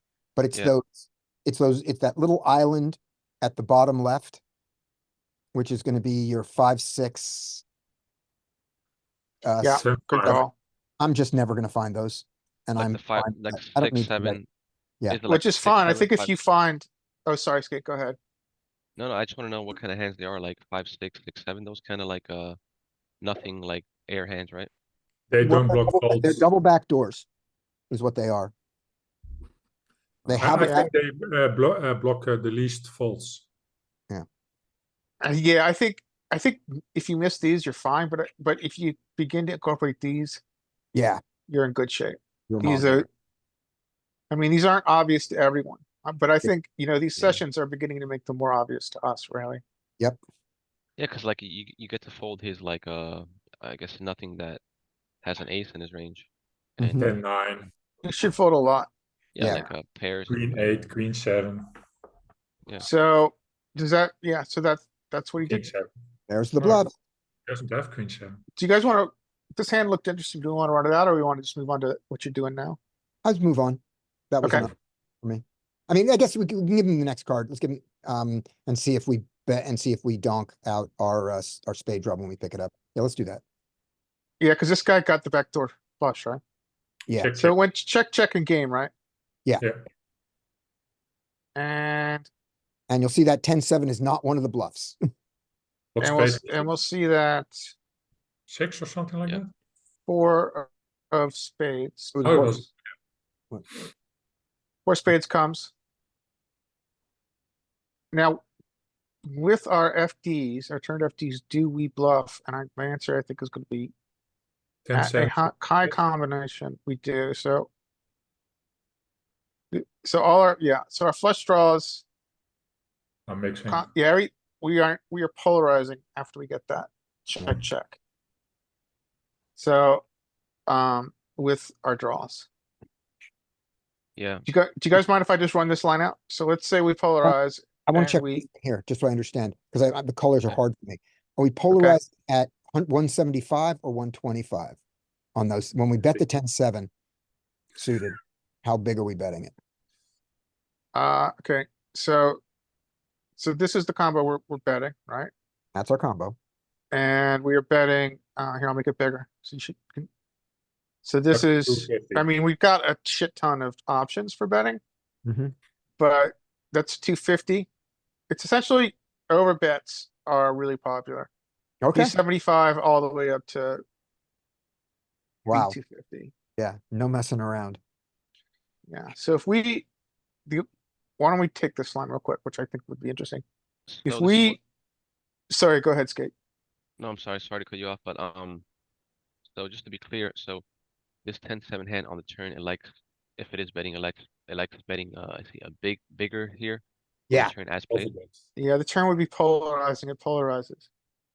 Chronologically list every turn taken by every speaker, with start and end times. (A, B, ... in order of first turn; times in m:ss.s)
0:00.4-0:04.4 A
0:05.5-0:07.6 A
0:09.4-0:10.4 A
0:09.6-0:10.5 B
0:09.8-0:10.4 C
0:11.0-0:14.4 A
0:12.8-0:14.5 D
0:15.1-0:16.3 D
0:15.3-0:18.2 B
0:19.0-0:22.6 D
0:23.2-0:24.7 D
0:25.3-0:26.4 C
0:25.4-0:27.3 A
0:27.9-0:28.5 A
0:30.2-0:30.9 A
0:30.4-0:33.4 C
0:30.6-0:30.8 B
0:35.2-0:40.4 B
0:40.9-0:41.2 A
0:41.5-0:43.0 B
0:42.5-0:43.0 A
0:44.3-0:49.6 B
0:51.0-0:54.6 D
0:55.2-0:56.3 D
0:56.8-0:57.1 A
0:56.8-0:57.1 D
0:57.0-0:57.7 C
0:58.0-0:58.9 B
0:59.3-1:00.9 D
0:59.4-0:59.7 A
1:00.3-1:01.7 C
1:02.8-1:05.6 B
1:05.4-1:05.9 C
1:06.3-1:06.9 A
1:06.6-1:06.8 C
1:07.5-1:08.4 C
1:08.6-1:12.8 B
1:13.2-1:23.4 A
1:14.4-1:14.7 B
1:24.4-1:26.4 B
1:27.2-1:27.5 C
1:27.4-1:28.9 B
1:29.6-1:29.8 C
1:31.6-1:32.3 B
1:32.9-1:35.0 A
1:35.9-1:36.7 C
1:36.0-1:37.7 B
1:38.5-1:39.5 C
1:40.1-1:42.6 B
1:42.1-1:42.6 A
1:42.2-1:42.7 C
1:44.8-1:45.7 B
1:48.1-1:48.4 B
1:49.3-1:53.9 B
1:54.8-1:55.5 C
1:54.9-1:57.7 B
1:59.7-2:02.0 B
2:03.3-2:03.9 C
2:03.7-2:08.0 B
2:09.6-2:10.0 B
2:10.7-2:12.5 B
2:14.2-2:14.4 D
2:14.4-2:18.4 B
2:17.9-2:24.8 A
2:21.7-2:22.0 B
2:25.3-2:26.9 A
2:27.8-2:29.5 A
2:30.9-2:32.4 B
2:33.4-2:35.3 B
2:35.7-2:36.4 A
2:36.9-2:40.1 B
2:41.0-2:44.8 B
2:41.3-2:42.2 C
2:45.2-2:45.5 A
2:46.0-2:47.7 B
2:48.3-2:51.3 B
2:51.8-2:52.1 A
2:51.9-2:53.8 B
2:55.4-2:55.8 A
2:55.5-2:56.3 B
2:56.6-2:57.8 A
2:58.9-2:59.9 B
3:01.2-3:03.4 B
3:03.9-3:04.6 D
3:04.0-3:04.6 B
3:05.5-3:06.3 B
3:07.0-3:08.6 D
3:09.5-3:10.6 D
3:11.2-3:18.1 D
3:17.9-3:18.4 C
3:18.6-3:20.9 B